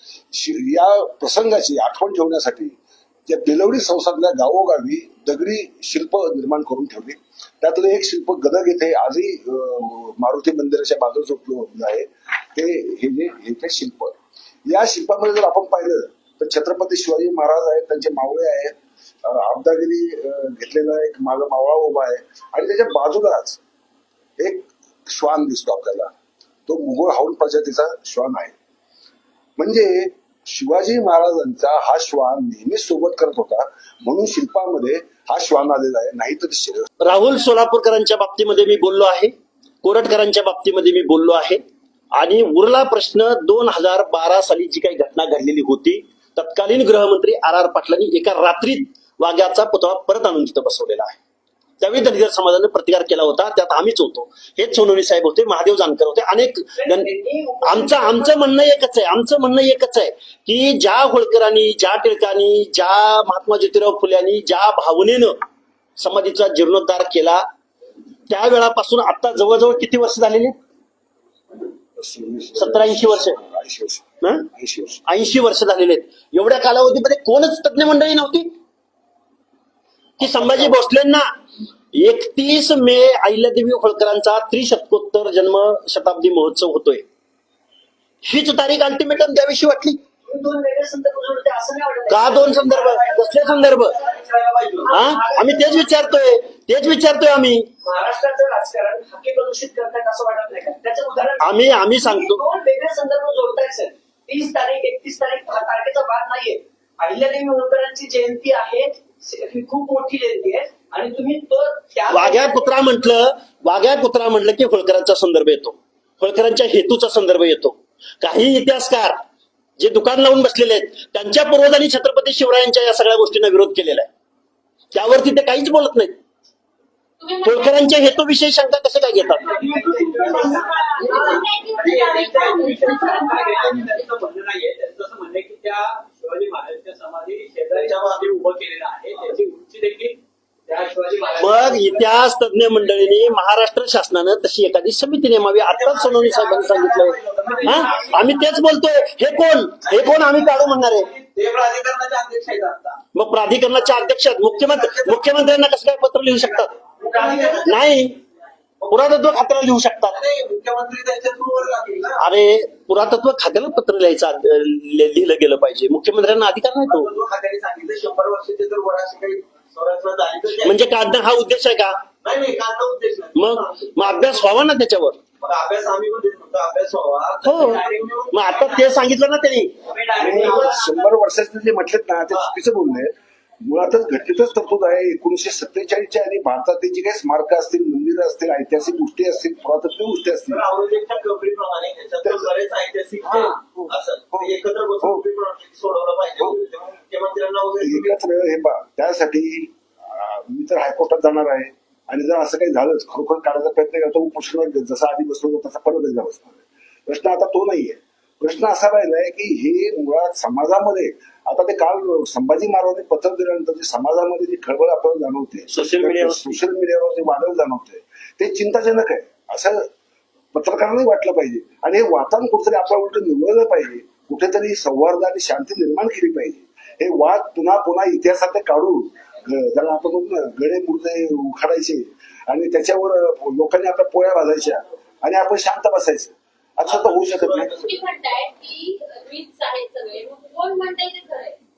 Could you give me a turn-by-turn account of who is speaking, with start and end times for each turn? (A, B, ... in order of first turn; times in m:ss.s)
0:00.3-0:23.6 A
0:24.4-0:26.1 A
0:26.7-0:28.5 A
0:29.6-0:36.9 A
0:37.0-0:41.6 B
0:42.1-0:51.2 B
0:51.8-0:57.1 B
0:56.8-0:58.7 C
0:57.6-1:05.4 B
1:06.0-1:07.4 B
1:08.3-1:10.6 B
1:12.0-1:15.0 A
1:12.6-1:13.4 B
1:14.2-1:14.5 B
1:15.1-1:18.5 B
1:20.2-1:21.3 B
1:20.2-1:20.5 A
1:21.9-1:27.0 B
1:28.2-1:30.0 B
1:30.2-1:34.2 C
1:32.1-1:34.0 B
1:33.9-1:35.3 D
1:34.8-1:35.9 C
1:34.9-1:37.7 B
1:37.8-1:52.7 C
1:41.4-1:42.4 B
1:52.1-1:59.2 B
1:59.8-2:04.1 B
2:04.9-2:06.2 B
2:07.2-2:08.2 E
2:07.4-2:09.5 B
2:09.4-2:11.4 C
2:09.4-2:22.0 D
2:10.2-2:14.0 E
2:12.9-2:13.7 C
2:21.2-2:21.8 C
2:21.4-2:31.1 B
2:25.7-2:28.5 D
2:27.5-2:28.4 C
2:29.9-2:30.3 D
2:31.1-2:33.0 D
2:33.2-2:36.7 B
2:34.5-2:35.4 D
2:37.0-2:37.8 D
2:37.1-2:37.7 C
2:37.6-2:38.2 B
2:38.8-2:39.1 D
2:38.9-2:40.2 B
2:40.1-2:42.2 D
2:42.2-2:47.1 B
2:46.8-2:50.8 D
2:50.6-2:52.0 B
2:52.2-2:54.5 D
2:53.4-2:55.2 B
2:55.4-2:58.9 D
2:57.4-2:59.8 B
2:59.9-3:01.0 D
3:00.2-3:10.6 A
3:00.2-3:00.7 C
3:10.5-3:18.1 D
3:12.2-3:12.5 A
3:17.8-3:39.9 A
3:35.7-3:36.6 B
3:40.5-3:57.9 A
3:56.8-3:57.8 D
3:57.7-4:01.6 E